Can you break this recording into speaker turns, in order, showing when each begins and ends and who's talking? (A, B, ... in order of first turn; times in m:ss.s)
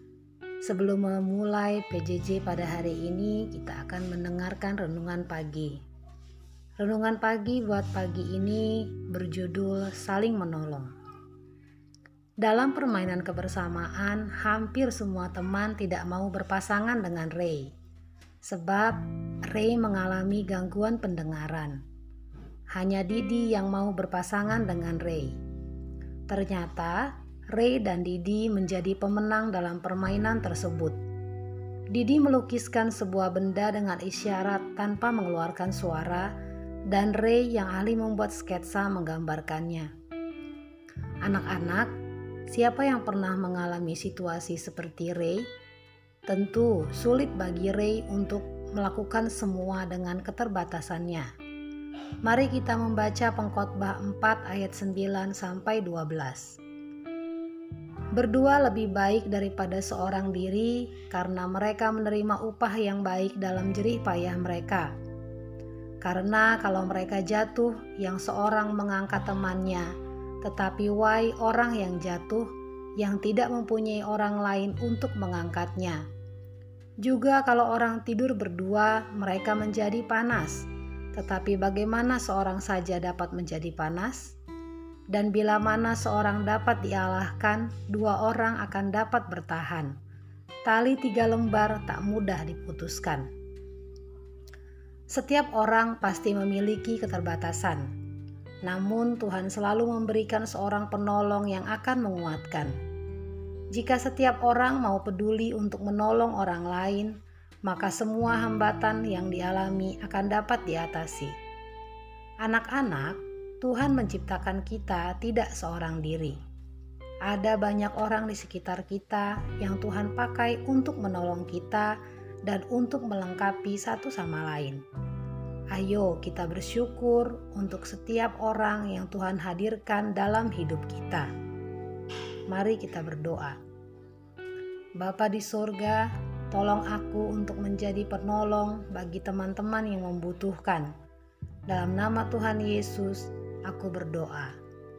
0:00.6-0:05.8 A
0:06.8-0:10.9 A
0:12.4-0:17.7 A
0:18.4-0:21.8 A
0:22.7-0:25.3 A
0:26.3-0:31.0 A
0:31.9-0:36.3 A
0:36.9-0:39.9 A
0:41.2-0:41.9 A
0:42.5-0:45.4 A
0:46.3-0:51.3 A
0:52.2-0:56.6 A
0:58.1-1:04.9 A
1:06.0-1:09.9 A
1:10.4-1:16.0 A
1:17.0-1:24.3 A
1:25.1-1:29.9 A
1:30.6-1:33.3 A
1:35.1-1:37.9 A
1:38.6-1:42.7 A
1:43.7-1:47.1 A
1:47.6-1:51.3 A
1:52.4-1:56.4 A
1:57.2-2:01.9 A
2:02.4-2:04.8 A
2:05.7-2:11.3 A
2:12.5-2:13.6 A
2:15.0-2:20.9 A
2:21.7-2:24.5 A